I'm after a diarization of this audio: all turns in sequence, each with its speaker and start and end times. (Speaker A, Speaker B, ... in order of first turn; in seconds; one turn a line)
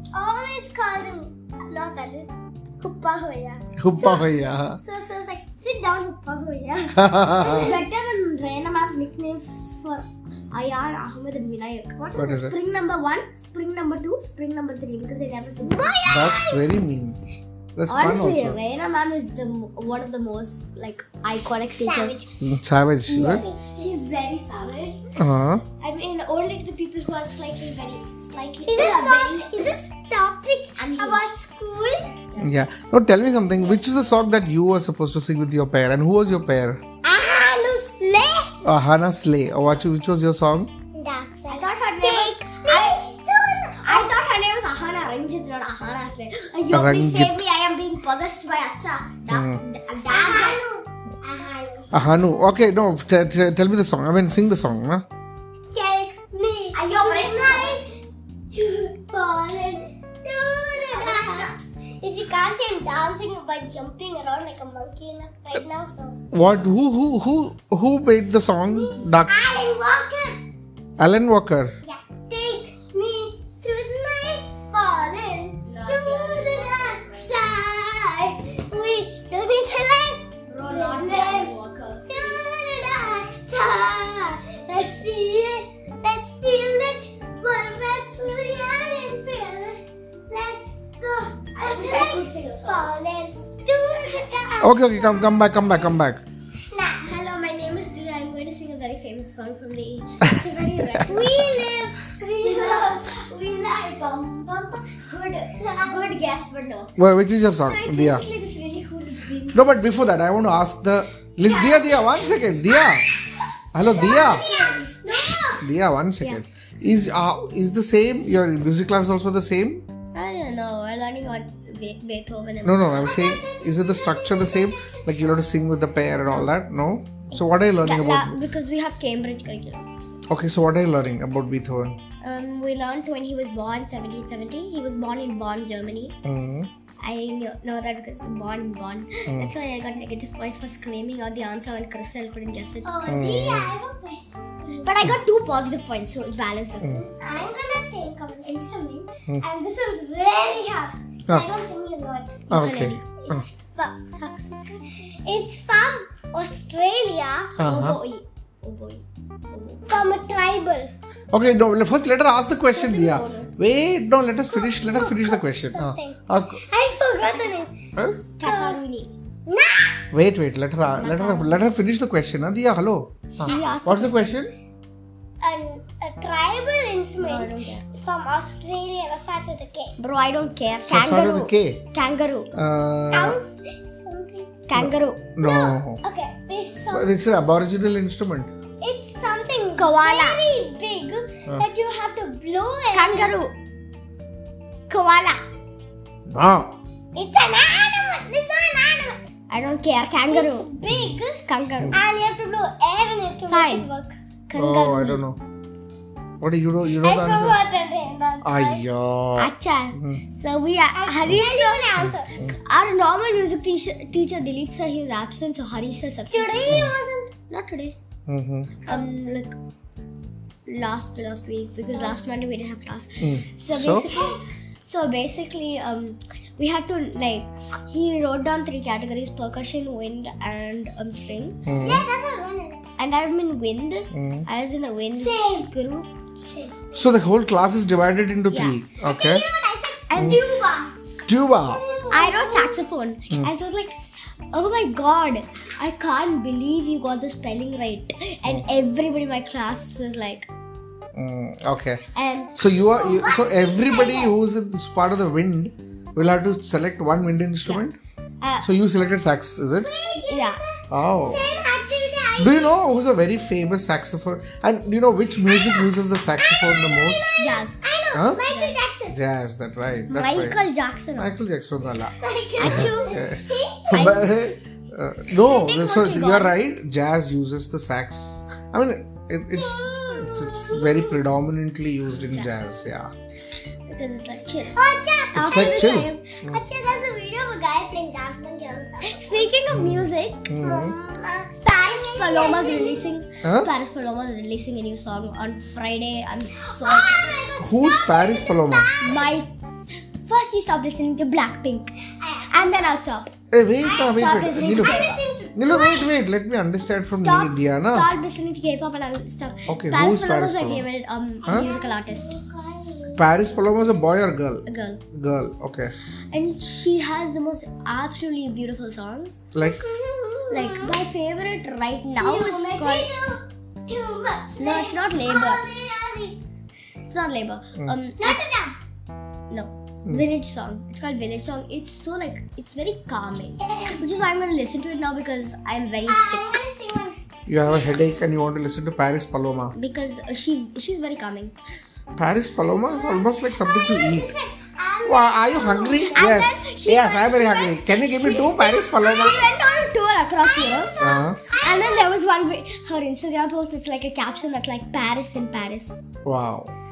Speaker A: 0.1-4.2
Speaker B: 3.8-4.8
Speaker C: 4.0-4.2
Speaker A: 4.8-7.7
Speaker B: 7.0-7.7
Speaker C: 7.3-16.0
Speaker B: 12.2-12.6
Speaker A: 15.6-16.7
Speaker B: 16.1-17.2
Speaker B: 17.8-18.6
Speaker C: 17.9-22.2
Speaker A: 21.8-22.3
Speaker B: 22.4-23.4
Speaker A: 23.1-23.7
Speaker C: 23.1-25.1
Speaker B: 25.2-25.6
Speaker C: 25.8-29.8
Speaker A: 28.7-32.1
Speaker C: 30.8-31.3
Speaker C: 32.3-32.7
Speaker B: 32.4-36.8
Speaker A: 37.0-38.5
Speaker B: 38.6-40.7
Speaker A: 41.0-44.2
Speaker C: 41.5-43.0
Speaker C: 43.8-50.7
Speaker B: 46.7-47.4
Speaker B: 49.3-49.6
Speaker A: 50.1-52.0
Speaker B: 51.9-55.0
Speaker A: 55.7-57.9
Speaker C: 56.7-57.8
Speaker A: 58.5-66.2
Speaker C: 60.8-61.5
Speaker B: 66.3-69.5
Speaker A: 69.2-70.4
Speaker B: 71.0-71.7
Speaker A: 71.8-81.5
Speaker C: 75.7-77.4
Speaker C: 80.5-82.5
Speaker A: 82.1-95.5
Speaker C: 91.5-92.9
Speaker B: 94.6-96.2
Speaker A: 96.7-97.1
Speaker C: 97.0-101.8
Speaker A: 101.0-103.0
Speaker C: 102.4-107.0
Speaker A: 105.8-106.1
Speaker B: 107.0-108.3
Speaker C: 107.5-109.7
Speaker B: 109.5-113.0
Speaker C: 111.4-112.9
Speaker B: 113.7-114.6
Speaker A: 113.8-115.6
Speaker C: 113.9-114.7
Speaker B: 115.5-119.8
Speaker C: 120.1-123.2
Speaker B: 122.6-128.4
Speaker A: 123.2-125.0
Speaker C: 127.8-130.2
Speaker B: 130.3-132.0
Speaker C: 132.2-136.2
Speaker B: 136.2-136.7
Speaker C: 137.0-142.9
Speaker B: 139.3-139.5
Speaker A: 142.8-145.0
Speaker B: 143.1-143.8
Speaker C: 144.8-147.1
Speaker A: 147.0-152.6
Speaker B: 152.5-153.5
Speaker C: 152.5-153.0
Speaker A: 153.2-154.0
Speaker C: 154.2-154.9
Speaker A: 155.1-157.5
Speaker B: 157.6-158.0
Speaker C: 157.6-160.1
Speaker A: 159.9-160.9
Speaker B: 161.3-166.6
Speaker C: 162.7-163.5
Speaker A: 164.5-167.7
Speaker B: 168.0-168.2
Speaker C: 168.4-169.1
Speaker A: 168.4-168.8
Speaker A: 169.5-170.0
Speaker B: 170.1-174.5
Speaker C: 171.0-171.6
Speaker C: 173.4-174.4
Speaker A: 173.5-173.7
Speaker A: 175.4-179.9
Speaker C: 177.2-177.9
Speaker C: 180.0-182.5
Speaker B: 180.9-181.8
Speaker B: 182.5-183.4
Speaker A: 183.1-184.5
Speaker C: 184.7-185.3
Speaker B: 184.8-186.0
Speaker A: 185.4-187.2
Speaker B: 186.9-188.5
Speaker A: 188.8-193.3
Speaker C: 189.8-190.4
Speaker C: 192.9-193.5
Speaker C: 194.9-195.4
Speaker B: 196.3-196.8
Speaker A: 197.2-199.2
Speaker C: 199.5-200.7
Speaker A: 200.2-204.2
Speaker B: 200.9-201.2
Speaker C: 201.4-202.0
Speaker C: 203.5-203.9
Speaker C: 204.5-205.2
Speaker B: 204.6-205.4
Speaker B: 206.4-207.6
Speaker A: 207.0-208.8
Speaker B: 208.4-210.2
Speaker C: 209.4-212.0
Speaker A: 210.9-212.3
Speaker B: 212.0-212.6
Speaker C: 212.6-216.9
Speaker A: 216.3-217.3
Speaker C: 217.5-218.0
Speaker B: 218.3-218.8
Speaker C: 218.9-219.6
Speaker C: 220.7-231.6
Speaker B: 223.2-224.1
Speaker A: 224.1-224.4
Speaker B: 231.7-232.1
Speaker A: 231.8-232.8
Speaker C: 233.0-236.1
Speaker B: 234.1-234.5
Speaker A: 235.2-235.7
Speaker A: 236.5-236.8
Speaker B: 236.9-239.4
Speaker C: 238.5-238.8
Speaker A: 239.0-240.9
Speaker C: 240.1-240.8
Speaker B: 240.2-240.4
Speaker B: 241.2-241.8
Speaker A: 241.7-242.8
Speaker C: 242.1-244.0
Speaker C: 244.5-250.5
Speaker B: 251.2-252.0
Speaker C: 252.1-252.6
Speaker B: 252.6-258.0
Speaker A: 252.9-254.3
Speaker C: 258.4-258.7
Speaker B: 258.6-259.9
Speaker A: 259.8-262.7
Speaker C: 260.2-260.6
Speaker B: 260.9-261.5
Speaker B: 262.4-267.4
Speaker A: 265.5-269.2
Speaker C: 267.4-267.8
Speaker B: 268.1-268.5
Speaker C: 268.5-268.8
Speaker B: 269.1-270.6
Speaker C: 270.1-271.3
Speaker B: 271.2-283.1
Speaker A: 272.2-274.2
Speaker C: 272.6-273.2
Speaker C: 273.9-274.3
Speaker C: 275.3-276.6
Speaker A: 279.5-281.2
Speaker C: 283.9-284.8
Speaker A: 284.7-289.5
Speaker C: 285.3-286.2
Speaker B: 285.4-286.6
Speaker C: 289.0-290.5
Speaker B: 289.7-290.9
Speaker A: 290.5-293.1
Speaker C: 291.7-297.4
Speaker B: 293.4-293.7
Speaker A: 296.6-299.4
Speaker B: 297.6-298.9
Speaker C: 299.0-299.5
Speaker C: 300.2-301.9
Speaker A: 302.2-303.0
Speaker C: 302.5-303.3
Speaker B: 303.5-305.1
Speaker A: 303.8-306.1
Speaker C: 304.1-305.2
Speaker B: 305.6-308.1
Speaker C: 307.1-312.4
Speaker B: 309.7-310.9
Speaker A: 311.4-313.3
Speaker B: 313.1-315.9
Speaker C: 314.7-315.0
Speaker C: 316.3-319.4
Speaker B: 319.6-319.9
Speaker A: 319.6-321.0
Speaker C: 320.5-323.1
Speaker A: 322.2-326.4
Speaker C: 324.6-325.7
Speaker C: 327.1-328.8
Speaker A: 328.2-328.8
Speaker C: 329.5-336.6
Speaker A: 333.6-334.0
Speaker A: 336.1-337.8
Speaker B: 337.5-339.8
Speaker C: 339.8-341.5
Speaker B: 342.2-344.3
Speaker A: 342.9-346.4
Speaker B: 345.1-349.4
Speaker C: 346.0-351.0
Speaker A: 350.4-352.1
Speaker B: 351.0-351.4
Speaker C: 351.5-356.0
Speaker B: 356.2-356.7